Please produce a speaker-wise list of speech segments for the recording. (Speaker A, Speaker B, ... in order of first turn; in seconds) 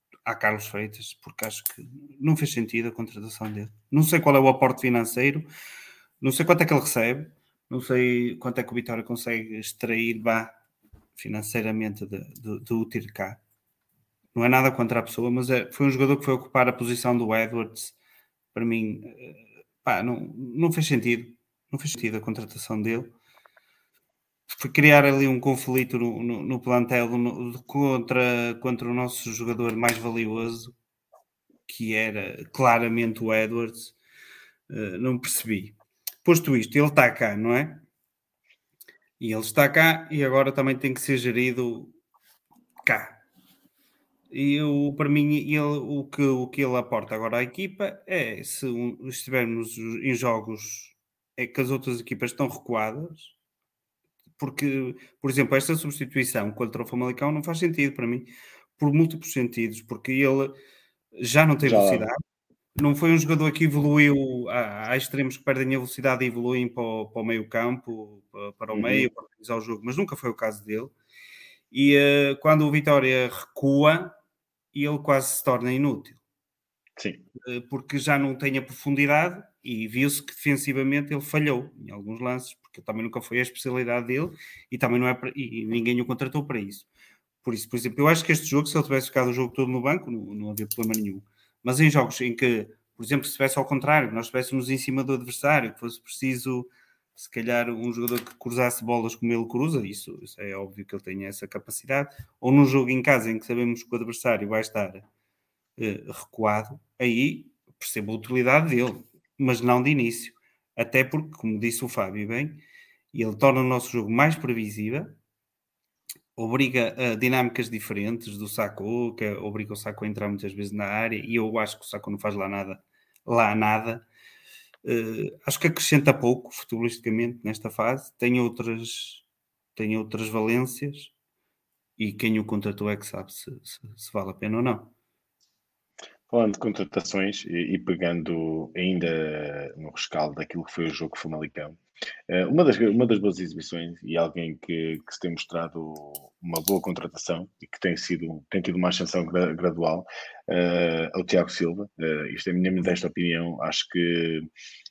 Speaker A: 0.2-5.5, 6.2-10.5, 11.2-13.4, 14.3-17.9, 18.5-23.1, 24.5-30.7, 31.7-33.9, 34.7-37.8, 39.2-41.9, 42.8-43.2, 44.3-53.3, 54.4-60.5, 61.2-62.2, 62.8-70.9, 71.7-74.2, 74.7-76.2, 77.5-86.9, 87.4-105.0, 105.8-112.6, 113.1-115.2, 116.3-124.0, 124.8-129.2, 129.8-131.1, 132.0-134.9
Speaker B: 61.6-62.1, 68.7-69.1, 77.0-77.2, 136.3-141.8, 142.3-154.5